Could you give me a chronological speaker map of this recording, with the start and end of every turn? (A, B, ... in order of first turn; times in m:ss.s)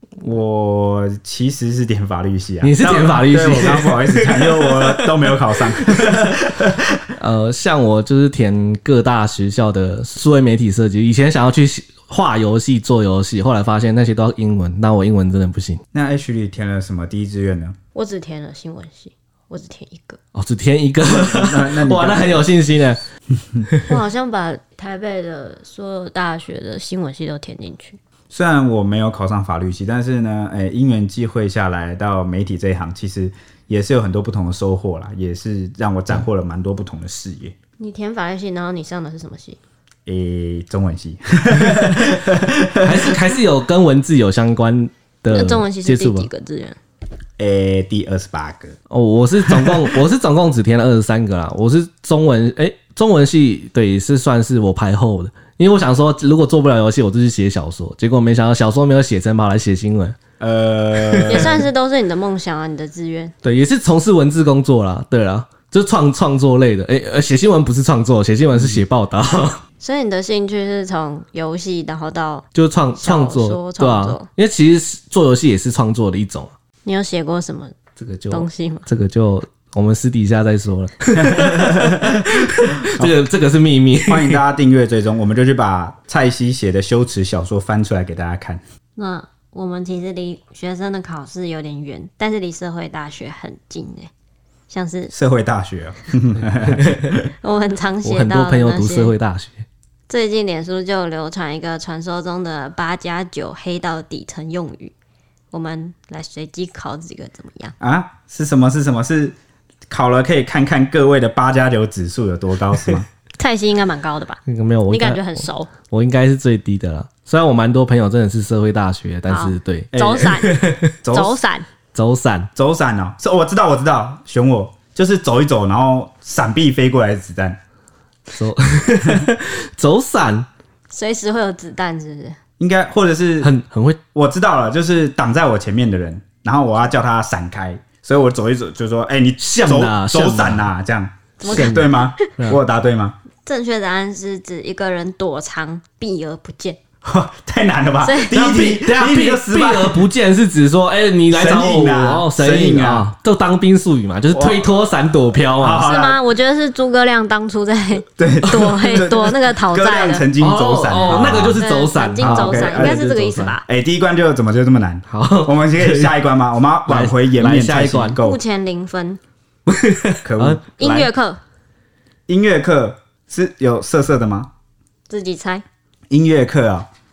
0:00.2-0:07.0 A
0:02.6-0:05.3 B
0:05.8-0:06.1 B
0:07.2-0:15.8 B
0:15.9-0:17.7 A
0:17.9-0:20.2 C
0:20.3-0:23.0 B
0:21.0-0:22.5 A
0:23.8-0:28.0 C
0:28.3-0:37.5 A
0:37.8-0:39.6 C
0:40.0-0:43.2 A
0:42.8-0:46.3 B
0:45.3-0:46.8 C
0:47.4-0:48.7 A
0:48.9-1:00.2 B
0:49.4-0:49.8 A
1:00.4-1:01.6 A
1:01.1-1:01.6 B
1:01.3-1:03.3 C
1:03.4-1:09.6 B
1:09.8-1:12.4 C
1:12.5-1:16.5 B
1:13.0-1:14.3 C
1:16.8-1:17.7 C
1:18.0-1:24.4 B
1:18.3-1:18.9 C
1:21.3-1:22.1 A
1:24.1-1:28.6 A
1:29.0-1:34.1 C
1:34.7-1:35.1 C
1:35.1-1:37.3 A
1:36.7-1:37.1 B
1:37.4-1:39.1 C
1:38.0-1:39.6 B
1:40.1-1:44.9 C
1:45.5-1:47.7 C
1:47.8-1:49.3 A
1:49.9-1:53.1 A
1:53.4-1:55.7 C
1:54.5-2:00.8 B
1:59.3-2:01.6 C
1:59.9-2:00.4 A
2:01.0-2:01.4 A
2:01.9-2:02.5 B
2:02.6-2:07.6 A
2:08.3-2:10.4 B
2:10.9-2:12.4 C
2:12.6-2:13.5 A
2:13.4-2:14.0 B
2:14.1-2:23.1 A
2:19.4-2:20.7 B
2:21.4-2:22.2 C
2:21.4-2:22.6 B
2:23.4-2:26.8 C
2:27.0-2:30.0 A
2:28.0-2:28.4 C
2:28.3-2:35.9 B
2:31.3-2:33.1 A
2:34.3-2:34.7 A
2:35.6-2:36.2 A
2:35.8-2:40.2 C
2:38.2-2:41.6 A
2:40.4-2:43.6 B
2:41.0-2:43.6 C
2:42.2-2:43.0 A
2:43.6-2:48.4 A
2:45.1-2:46.1 B
2:46.9-2:48.2 B
2:48.2-2:49.2 C
2:49.7-2:50.6 B
2:50.2-2:51.1 A
2:50.8-2:51.4 C
2:52.3-2:54.5 A
2:55.1-2:55.6 C
2:56.1-2:56.9 A